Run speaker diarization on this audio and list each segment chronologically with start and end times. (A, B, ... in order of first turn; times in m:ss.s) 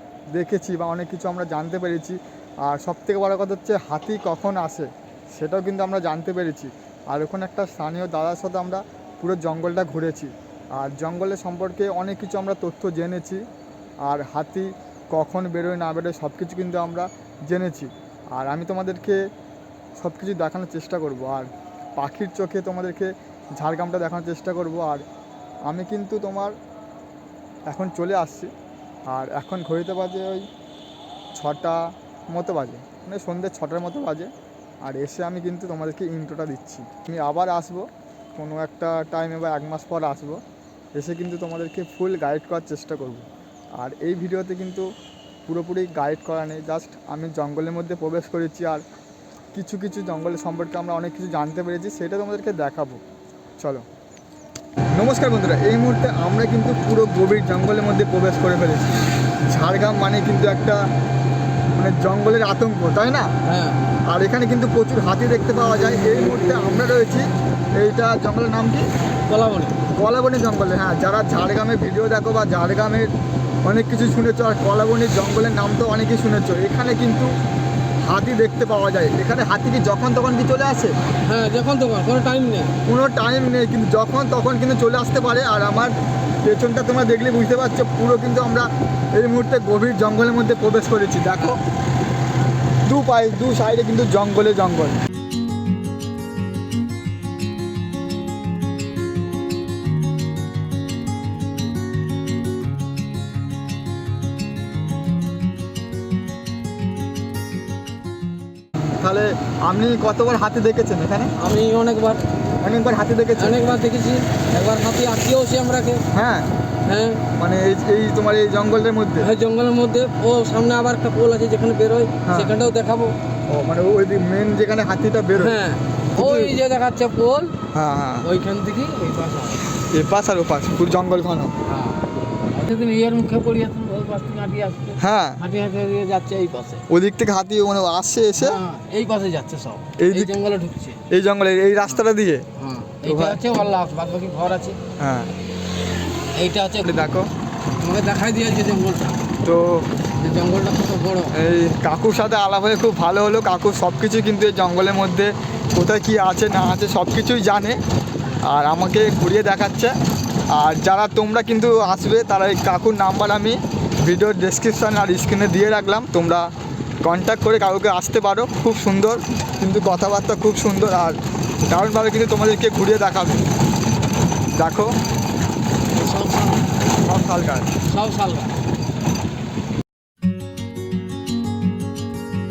0:00.3-0:13.4 A
0:14.0-0:19.2 A
0:20.0-0:25.0 A
0:25.7-0:26.5 A
0:27.7-0:28.5 A
0:29.1-0:30.5 A
0:31.4-0:34.3 A
0:34.8-0:40.4 A
0:40.9-0:43.3 A
0:43.8-0:44.9 A
0:45.5-0:48.8 A
0:49.5-0:53.0 A
0:53.6-0:53.8 A
0:54.9-1:00.8 A
1:01.7-1:03.3 A
1:03.4-1:03.8 B
1:04.1-1:08.9 A
1:09.3-1:09.8 B
1:09.9-1:13.1 A
1:13.6-1:17.3 A
1:18.0-1:20.9 A
1:21.3-1:22.8 B
1:22.8-1:31.6 A
1:32.8-1:35.0 A
1:48.8-1:51.3 A
1:51.4-1:52.3 B
1:52.6-1:53.6 A
1:53.4-1:56.0 B
1:56.1-1:56.5 A
1:56.8-1:57.2 B
1:57.4-1:59.3 A
1:59.2-2:03.1 B
2:02.2-2:02.5 A
2:03.5-2:05.6 A
2:05.4-2:07.5 B
2:06.1-2:06.6 A
2:07.7-2:08.3 A
2:08.2-2:09.6 B
2:09.9-2:11.5 A
2:11.6-2:16.8 B
2:15.0-2:15.4 A
2:16.9-2:18.6 A
2:18.4-2:21.0 B
2:20.0-2:20.3 A
2:21.1-2:22.4 A
2:22.6-2:24.8 B
2:23.0-2:23.4 A
2:25.0-2:25.3 A
2:26.3-2:27.1 B
2:26.8-2:27.3 A
2:27.8-2:29.3 B
2:29.4-2:29.8 A
2:30.2-2:31.3 B
2:31.3-2:37.8 A
2:38.4-2:39.9 A
2:40.5-2:46.5 A
2:47.0-2:53.4 A
2:54.5-2:55.0 A
2:55.9-2:56.7 B
2:57.0-2:57.7 A
2:57.8-2:58.6 B